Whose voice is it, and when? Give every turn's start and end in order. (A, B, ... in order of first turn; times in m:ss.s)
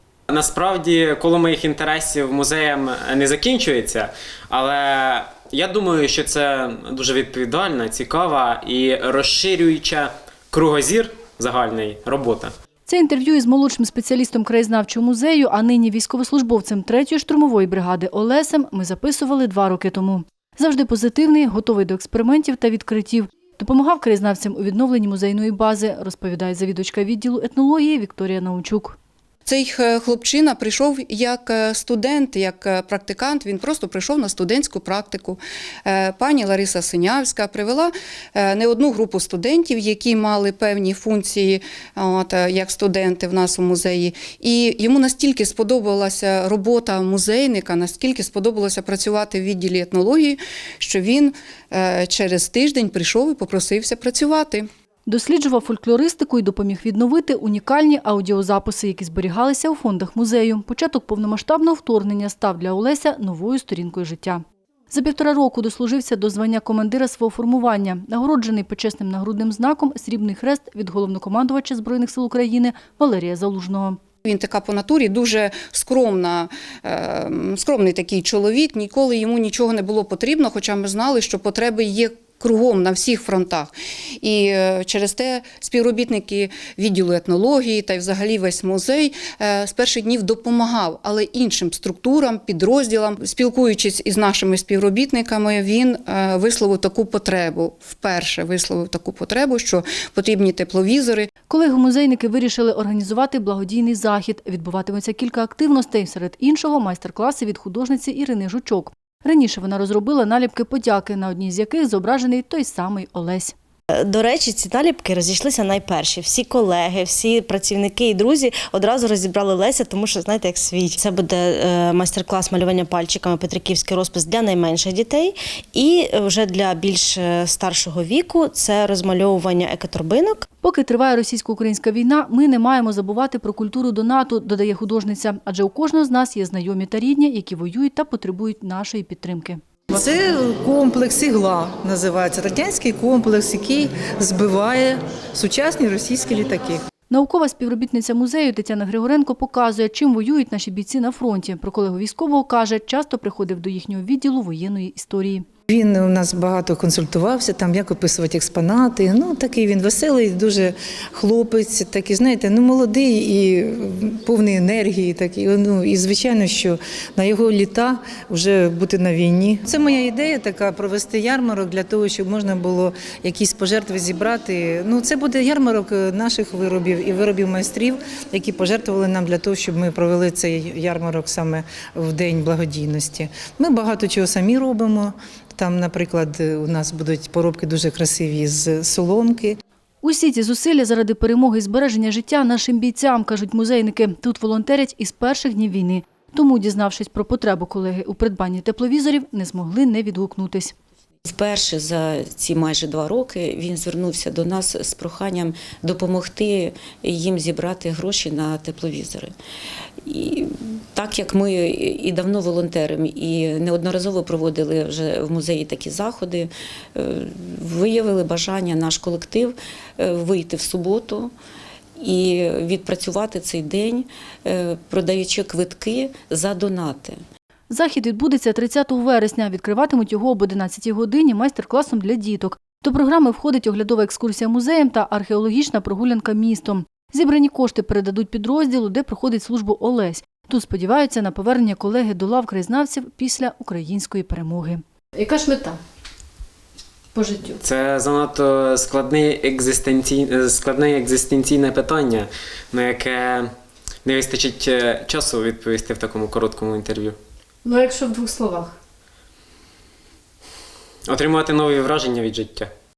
0:00.3-0:12.5 A
0:12.9-0:29.0 B
0:29.5-0:54.7 C
0:55.1-1:14.0 B
1:14.2-1:41.3 C
1:41.5-1:53.6 B
1:54.0-2:10.5 D
2:10.6-2:19.6 B
2:19.9-2:26.8 E
2:27.1-2:35.4 B
2:35.7-3:09.6 E
3:10.0-3:20.7 B
3:21.2-3:29.3 F
3:30.1-3:41.3 F
3:42.0-3:47.2 F
3:47.7-4:05.8 B
4:07.1-4:07.6 B
4:07.6-4:13.5 A
4:14.0-4:17.2 A
4:17.6-4:18.8 B
4:21.1-4:22.7 A